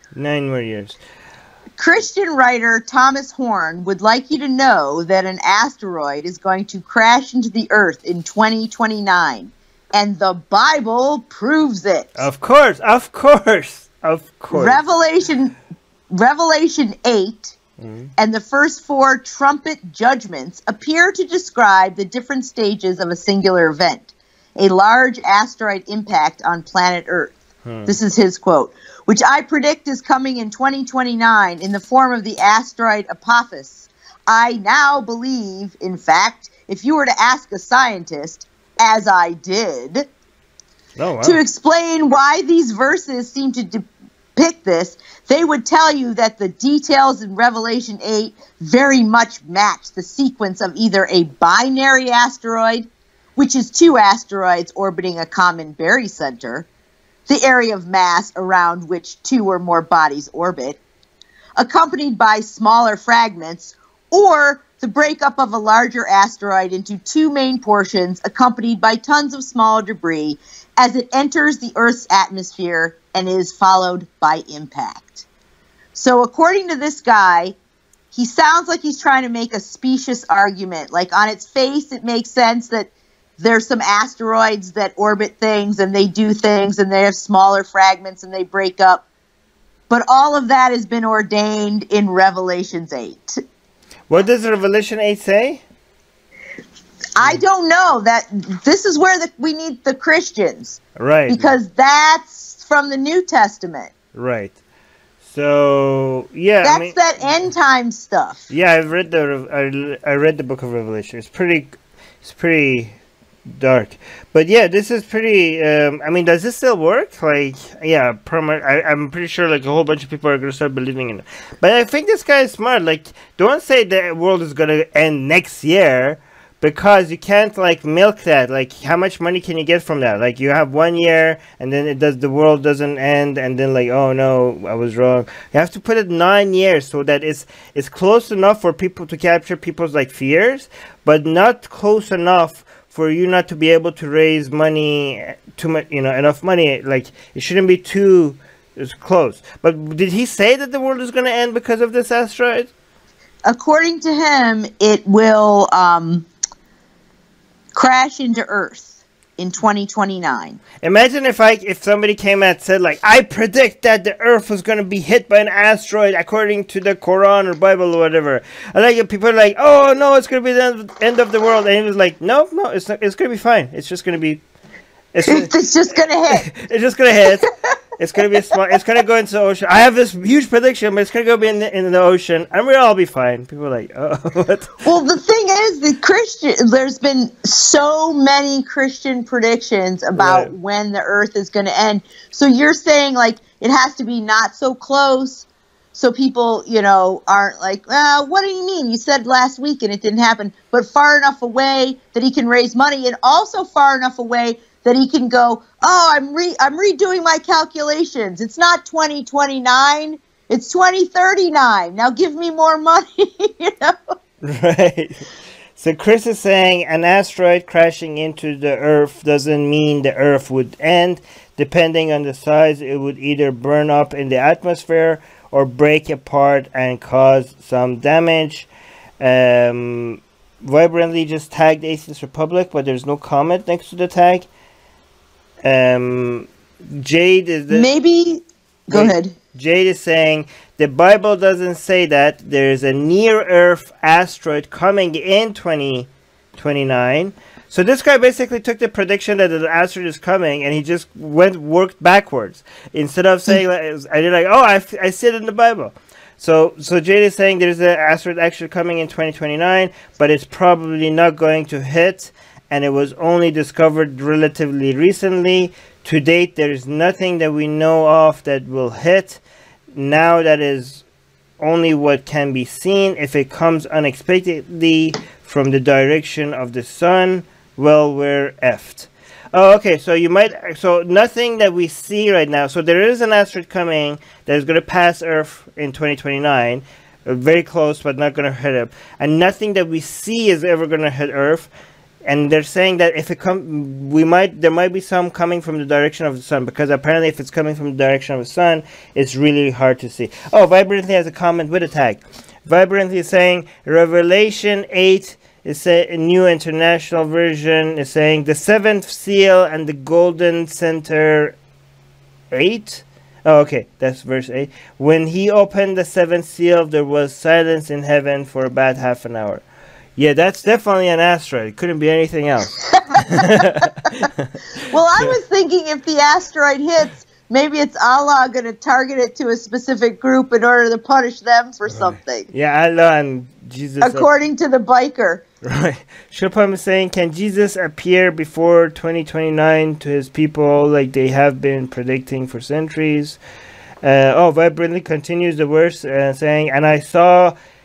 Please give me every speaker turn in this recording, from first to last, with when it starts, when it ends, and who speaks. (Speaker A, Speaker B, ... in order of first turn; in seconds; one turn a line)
Speaker A: 0.1-1.0
Speaker B: 1.8-12.3
Speaker A: 12.2-14.8
Speaker B: 14.5-15.5
Speaker B: 16.1-17.6
Speaker A: 17.8-18.1
Speaker B: 18.2-27.3
Speaker A: 27.6-27.9
Speaker B: 27.9-40.1
Speaker A: 41.0-41.4
Speaker B: 41.2-43.9
Speaker B: 44.4-56.7
Speaker B: 57.3-60.8
Speaker B: 61.6-75.3
Speaker B: 75.9-77.6
Speaker B: 78.1-89.0
Speaker B: 89.9-93.3
Speaker A: 94.1-95.6
Speaker B: 97.2-103.9
Speaker A: 101.0-101.5
Speaker A: 104.1-104.6
Speaker A: 105.2-107.0
Speaker B: 106.6-108.5
Speaker A: 108.5-113.0
Speaker A: 113.6-152.7
Speaker B: 153.5-156.3
Speaker B: 157.8-160.6
Speaker A: 160.8-174.4
Speaker A: 175.1-175.5
Speaker B: 175.3-176.4
Speaker A: 176.3-177.5
Speaker A: 178.0-184.8
Speaker B: 184.8-214.0
Speaker A: 190.2-190.5
Speaker A: 214.4-215.2
Speaker A: 215.8-228.7
Speaker A: 229.2-234.5
Speaker A: 235.6-237.9
Speaker B: 237.7-239.3
Speaker A: 238.9-269.4
Speaker A: 269.9-271.1
Speaker A: 271.6-291.7
Speaker A: 292.2-311.6
Speaker A: 312.5-319.6
Speaker A: 320.2-324.5
Speaker B: 324.9-332.5
Speaker A: 331.9-334.3
Speaker B: 334.0-335.4
Speaker A: 335.6-343.4
Speaker A: 344.0-347.6